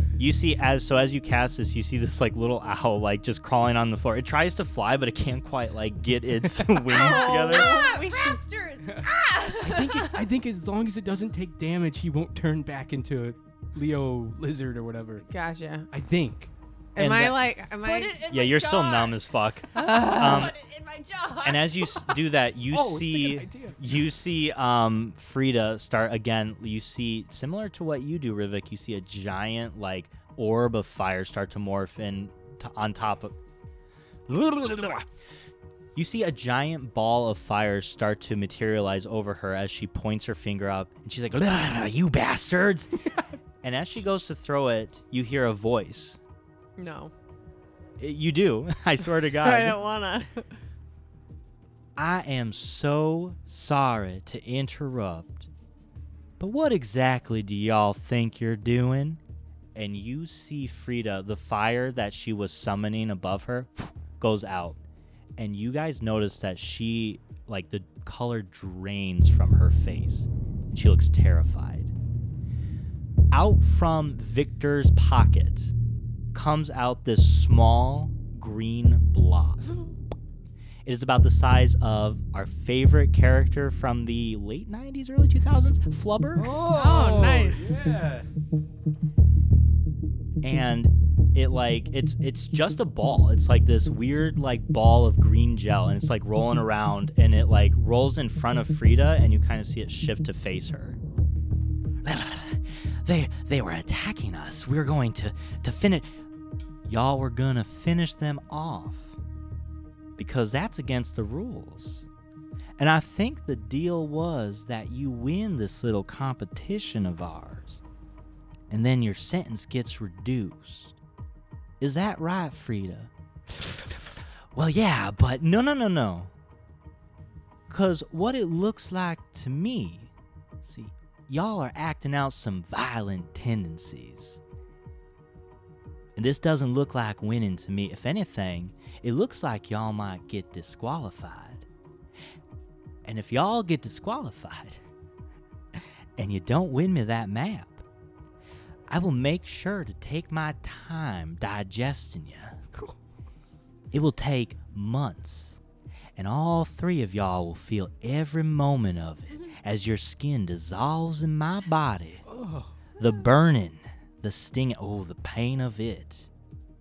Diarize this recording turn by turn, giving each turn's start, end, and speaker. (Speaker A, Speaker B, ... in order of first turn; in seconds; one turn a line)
Speaker A: 0.2-7.8
Speaker B: 6.9-8.4
Speaker C: 6.9-10.2
Speaker D: 9.6-15.3
Speaker B: 15.3-15.9
Speaker D: 15.9-16.5
Speaker B: 16.9-18.3
Speaker A: 17.0-17.5
Speaker C: 17.8-19.2
Speaker A: 18.3-20.6
Speaker C: 19.7-22.2
Speaker B: 19.8-20.5
Speaker A: 21.4-33.4
Speaker D: 22.7-23.8
Speaker A: 34.3-35.1
Speaker A: 36.0-42.9
Speaker A: 43.6-46.2
Speaker B: 46.8-47.1
Speaker A: 48.0-49.8
Speaker B: 49.3-50.5
Speaker A: 52.0-55.5
Speaker A: 56.4-59.2
Speaker A: 59.8-64.8
Speaker A: 65.4-71.9
Speaker A: 73.3-75.7
Speaker A: 76.3-79.6
Speaker A: 80.8-86.6
Speaker D: 86.3-88.3
Speaker B: 86.6-87.7
Speaker A: 90.4-101.0
Speaker A: 102.0-106.1
Speaker A: 106.9-109.2
Speaker A: 110.2-112.1
Speaker A: 112.8-117.8
Speaker A: 118.7-120.9
Speaker A: 121.8-124.0
Speaker A: 124.5-126.3
Speaker A: 127.7-130.1
Speaker A: 130.6-134.4
Speaker A: 136.2-141.7
Speaker A: 143.1-144.8
Speaker A: 145.8-147.8
Speaker A: 148.9-152.6
Speaker A: 153.9-155.6
Speaker A: 156.2-162.2
Speaker D: 162.3-162.8
Speaker A: 163.0-166.3